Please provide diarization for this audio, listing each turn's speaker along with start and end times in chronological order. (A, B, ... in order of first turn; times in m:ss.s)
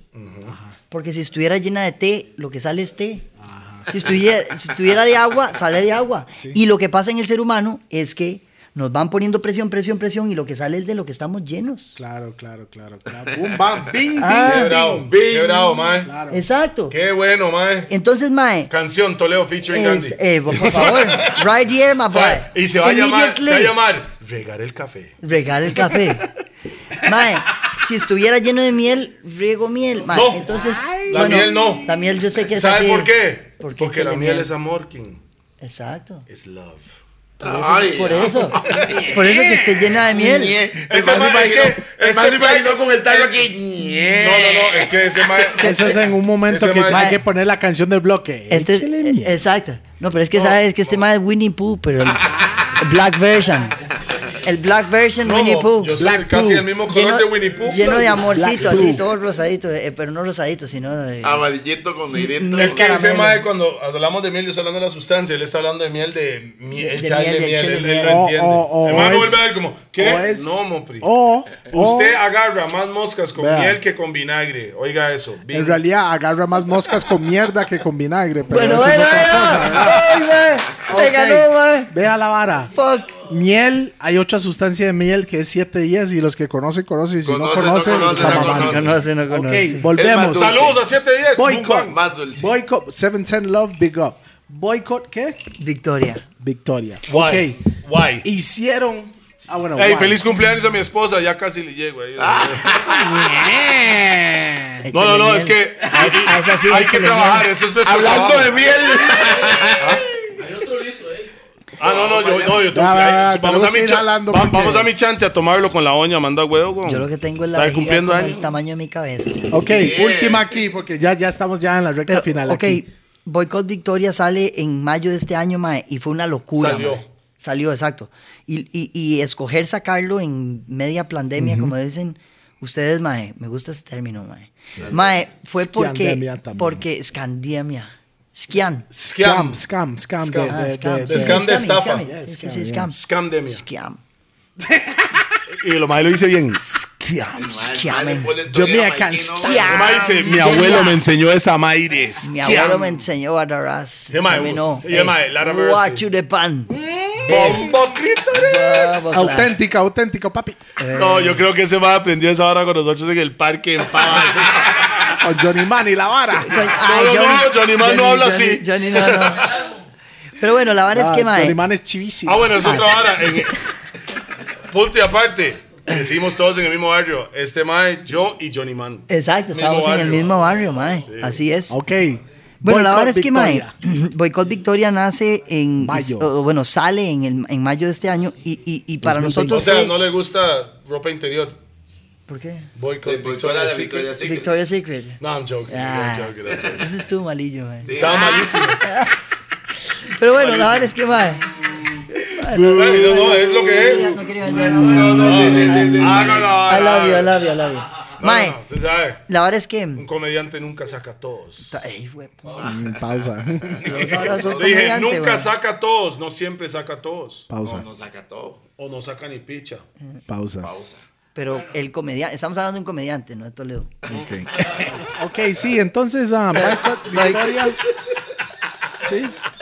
0:00.1-0:00.6 A
0:00.4-0:00.7 B
0:00.9-0:03.2 C
0:03.4-0:03.9 B
0:03.9-0:12.0 C
0:12.0-0:15.1 B
0:14.2-0:15.1 C
0:14.4-0:16.1 A
0:15.1-0:15.9 D
0:16.0-0:16.4 B
0:16.3-0:17.0 C
0:16.9-0:17.9 A
0:17.9-0:18.7 C
0:18.7-0:21.5 A
0:19.7-0:23.8 C
0:22.1-0:25.2 A
0:25.2-0:26.3 C
0:27.0-0:34.5 C
0:30.1-0:31.9 A
0:30.6-0:32.0 B
0:32.5-0:35.2 A
0:35.6-0:36.3 C
0:36.3-0:36.9 A
0:37.4-0:40.6 C
0:37.4-0:39.3 D
0:38.6-0:39.2 A
0:38.8-0:39.6 B
0:40.0-0:45.5 D
0:40.9-0:47.2 A
0:45.5-0:46.0 C
0:45.6-0:49.4 B
0:46.9-0:47.2 C
0:48.5-0:53.8 C
0:50.3-0:50.6 A
0:54.4-0:56.0 C
0:55.2-0:58.9 A
0:56.0-0:56.7 B
0:56.9-1:01.5 C
0:58.1-0:59.1 B
1:01.2-1:03.0 D
1:02.1-1:03.4 C
1:02.6-1:11.1 A
1:06.7-1:08.2 C
1:08.0-1:09.4 B
1:10.0-1:12.2 B
1:11.7-1:15.8 A
1:13.4-1:13.8 B
1:15.5-1:20.2 B
1:18.5-1:21.9 C
1:20.8-1:22.7 B
1:22.7-1:23.2 C
1:23.2-1:30.7 B
1:27.2-1:29.0 D
1:27.9-1:29.9 C
1:29.9-1:30.8 D
1:30.2-1:32.0 A
1:31.4-1:35.4 B
1:31.9-1:32.5 D
1:35.6-1:36.3 C
1:36.4-1:37.6 B
1:37.1-1:38.3 A
1:38.2-1:40.2 B
1:39.8-1:42.8 A
1:42.2-1:43.2 D
1:42.9-1:44.8 B
1:44.8-1:47.5 C
1:44.9-1:48.9 A
1:47.8-1:50.1 D
1:49.8-1:50.0 A
1:50.4-1:51.3 E
1:51.8-1:58.5 A
1:51.8-1:52.7 D
1:52.7-1:54.9 B
1:56.8-1:59.7 C
1:59.5-2:02.8 B
1:59.7-2:00.5 D
2:02.1-2:18.9 C
2:06.5-2:07.0 A
2:11.4-2:11.7 B
2:15.5-2:16.8 B
2:19.0-2:19.6 A
2:19.0-2:21.4 B
2:20.2-2:22.1 A
2:20.5-2:24.0 C
2:22.0-2:22.9 B
2:22.9-2:23.6 A
2:24.6-2:25.4 B
2:25.5-2:27.4 A
2:27.4-2:30.0 D
2:27.4-2:28.4 C
2:28.5-2:30.9 B
2:29.4-2:31.0 C
2:29.7-2:33.0 A
2:32.2-2:37.7 C
2:34.1-2:36.0 A
2:36.7-2:37.7 B
2:37.3-2:39.2 A
2:38.3-2:39.6 C
2:39.1-2:40.6 B
2:40.8-2:41.4 C
2:40.9-2:45.2 A
2:45.2-2:46.6 B
2:46.4-2:49.5 C
2:46.7-2:49.6 A
2:49.4-2:49.8 E
2:50.4-2:51.6 C
2:50.9-2:52.9 B
2:52.3-2:53.6 A
2:52.6-2:53.6 C
2:54.7-3:00.3 A
2:59.1-3:01.8 C
3:00.1-3:01.1 E
3:01.1-3:01.4 A
3:01.7-3:03.7 B
3:02.6-3:09.9 C
3:05.8-3:06.3 B
3:09.0-3:09.7 B
3:09.4-3:11.6 A
3:12.3-3:12.7 C
3:12.8-3:14.2 A
3:13.0-3:14.5 D
3:14.2-3:19.2 C
3:15.2-3:16.9 A
3:17.8-3:18.7 D
3:17.9-3:18.9 A
3:19.9-3:21.5 C
3:20.3-3:21.9 A
3:22.1-3:28.6 C
3:22.7-3:27.4 A
3:24.5-3:26.8 D
3:24.5-3:26.4 B
3:28.2-3:29.2 A
3:29.3-3:30.1 C
3:30.0-3:31.8 A
3:31.7-3:32.7 C
3:32.4-3:32.8 E
3:32.6-3:34.6 D
3:32.6-3:34.2 B
3:33.8-3:35.5 C
3:34.4-3:37.5 A
3:37.5-3:37.9 B
3:37.6-3:38.6 D
3:38.8-3:39.8 A
3:40.3-3:40.7 B
3:40.6-3:41.0 D
3:41.4-3:44.0 C
3:44.1-3:44.8 D
3:44.1-3:47.8 B
3:44.6-3:45.0 E
3:46.5-3:47.6 C
3:49.0-3:49.4 B